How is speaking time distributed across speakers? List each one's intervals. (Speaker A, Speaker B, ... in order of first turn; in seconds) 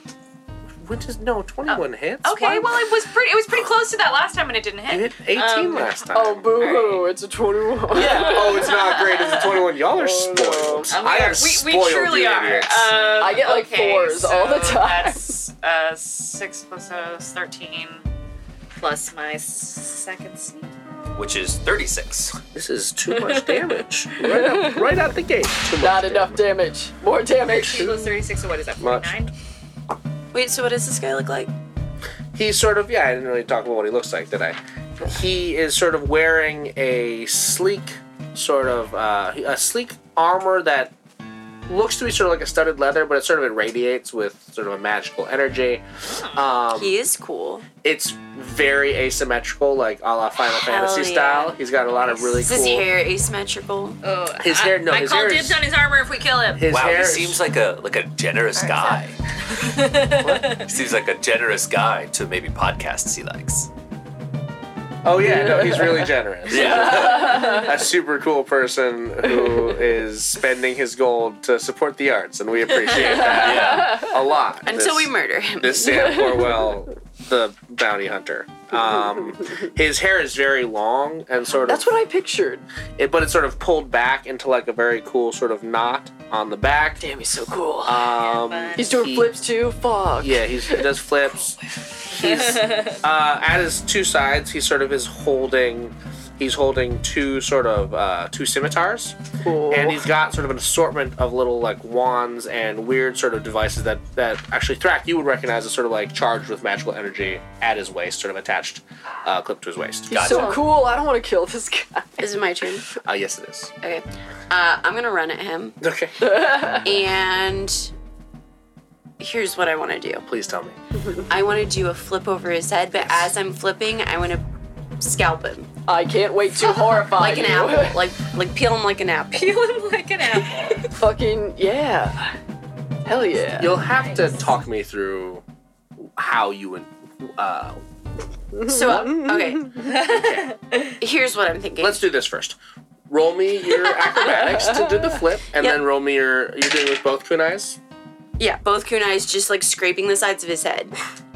Speaker A: 0.8-2.7, 4.9-6.5, 7.9-12.9, 22.5-26.4, 27.5-28.1, 28.8-29.3, 32.3-40.9, 41.7-47.0, 47.8-52.9, 54.4-55.6, 56.5-57.4, 60.2-60.5, 65.0-81.9, 83.0-87.0, 87.8-89.4, 90.2-91.6, 92.1-99.1, 99.7-110.3, 113.0-113.7, 115.8-116.3, 120.2-120.8, 133.6-135.4, 136.0-137.8, 140.0-140.5, 141.8-142.6, 143.1-147.8
Speaker B: 1.7-6.0, 6.5-7.1, 7.9-9.6, 10.9-18.1, 18.7-21.4, 27.4-29.3, 46.0-46.5, 54.0-56.7, 58.7-60.6, 88.0-89.0, 92.2-93.0, 129.3-130.9, 133.9-134.3, 139.8-140.9
Speaker C: 6.1-8.7, 10.0-11.0, 13.2-15.3, 24.2-24.9, 25.8-28.0, 65.2-67.7, 73.2-74.1, 76.2-76.5, 81.7-82.6, 87.0-88.0, 88.8-90.8, 99.4-100.1, 110.1-112.2, 116.2-116.9, 125.9-128.0, 131.0-132.2, 133.1-133.8, 138.5-139.6, 144.5-145.2
Speaker D: 21.1-22.4, 56.7-59.2, 60.5-63.7, 66.5-67.6, 73.2-74.1, 110.1-110.6
Speaker E: 30.3-31.5, 46.7-47.7, 50.5-54.0, 74.6-76.4, 110.2-110.6, 112.2-112.9, 113.8-115.8, 116.8-117.9, 119.2-120.2, 121.3-124.4, 125.0-125.7, 126.7-129.7, 138.6-139.9, 141.0-142.1, 148.4-150.9